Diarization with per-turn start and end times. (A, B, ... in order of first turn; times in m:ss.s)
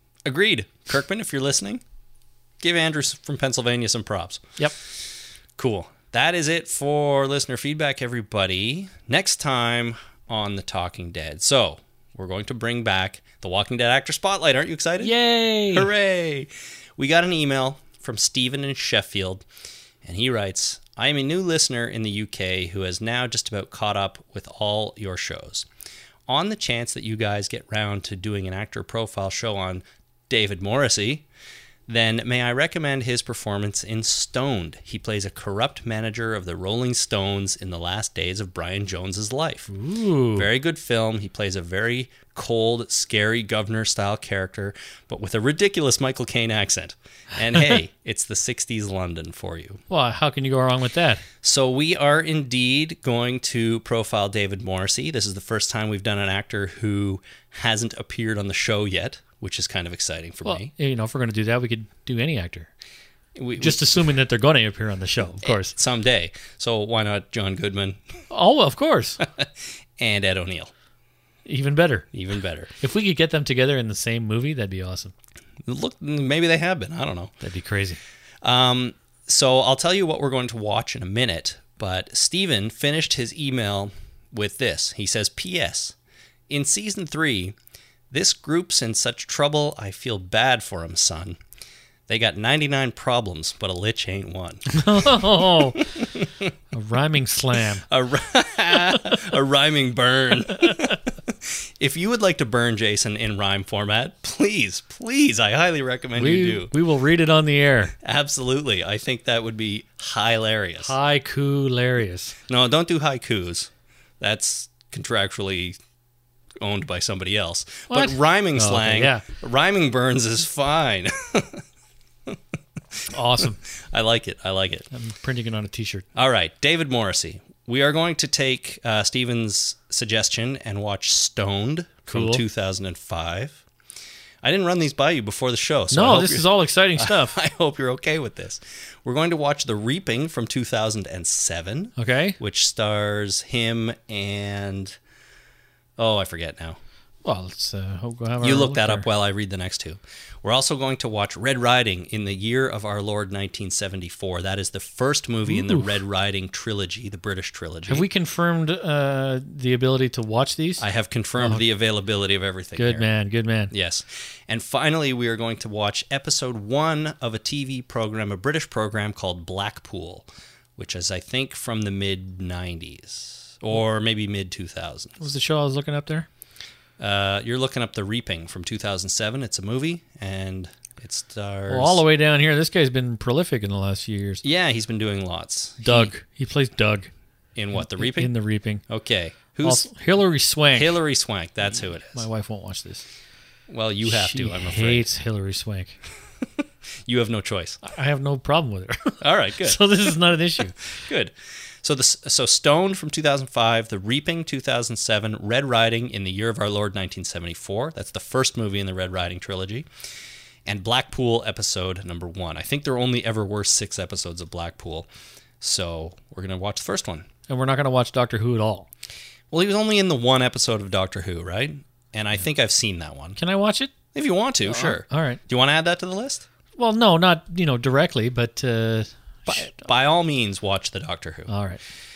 0:00.2-0:01.8 A
0:02.6-0:04.6 A
0:05.6-0:15.1 A
0:15.0-0:15.9 B
0:15.7-0:19.4 A
0:20.0-0:25.6 A
0:26.3-0:31.2 A
0:31.9-0:39.7 A
0:39.7-0:40.5 B
0:40.4-0:49.8 A
0:49.9-0:51.2 B
0:51.4-1:00.7 A
1:00.4-1:02.7 B
1:03.4-1:03.9 A
1:03.6-1:05.7 B
1:05.4-1:08.0 A
1:08.3-1:09.2 B
1:09.2-1:10.7 A
1:11.4-1:12.1 B
1:12.1-1:12.7 A
1:12.8-1:15.1 B
1:15.6-1:17.3 A
1:17.4-1:18.0 B
1:18.4-1:25.9 A
1:26.5-1:27.6 A
1:28.1-1:31.4 A
1:32.1-1:35.2 A
1:34.7-1:35.8 B
1:35.8-1:36.5 A
1:36.7-1:37.8 B
1:37.9-1:46.7 A
1:46.2-1:47.9 B
1:48.0-1:50.9 A
1:50.8-1:52.4 B
1:52.5-1:55.8 A
1:56.6-2:01.6 A
1:57.9-1:59.2 B
2:03.1-2:03.6 B
2:03.7-2:04.9 A
2:04.9-2:06.0 B
2:06.1-2:13.6 A
2:12.1-2:12.4 B
2:14.4-2:25.0 A
2:15.9-2:17.3 B
2:22.0-2:22.4 B
2:26.0-2:26.8 A
2:27.2-2:29.0 B
2:28.4-2:38.0 A
2:35.5-2:35.8 B
2:37.9-2:40.8 B
2:40.8-2:43.1 A
2:42.8-2:43.7 B
2:43.7-2:55.2 A
2:55.2-2:56.3 B
2:57.0-3:02.0 A
3:01.7-3:04.4 B
3:04.4-3:06.1 A
3:05.8-3:07.1 B
3:07.5-3:08.3 A
3:07.8-3:08.8 B
3:08.9-3:09.8 A
3:09.6-3:11.0 B
3:10.7-3:12.2 A
3:12.1-3:13.0 B
3:13.7-3:15.0 A
3:14.0-3:16.0 B
3:17.0-3:17.8 A
3:17.8-3:20.8 B
3:19.2-3:19.9 A
3:20.8-3:29.9 A
3:30.6-3:35.1 A
3:35.6-3:37.3 A
3:37.5-3:38.9 B
3:39.5-3:43.4 A
3:43.4-3:43.9 B
3:44.1-3:46.4 A
3:44.6-3:45.4 B
3:46.8-3:49.8 B
3:49.5-3:51.5 A
3:51.5-3:51.8 B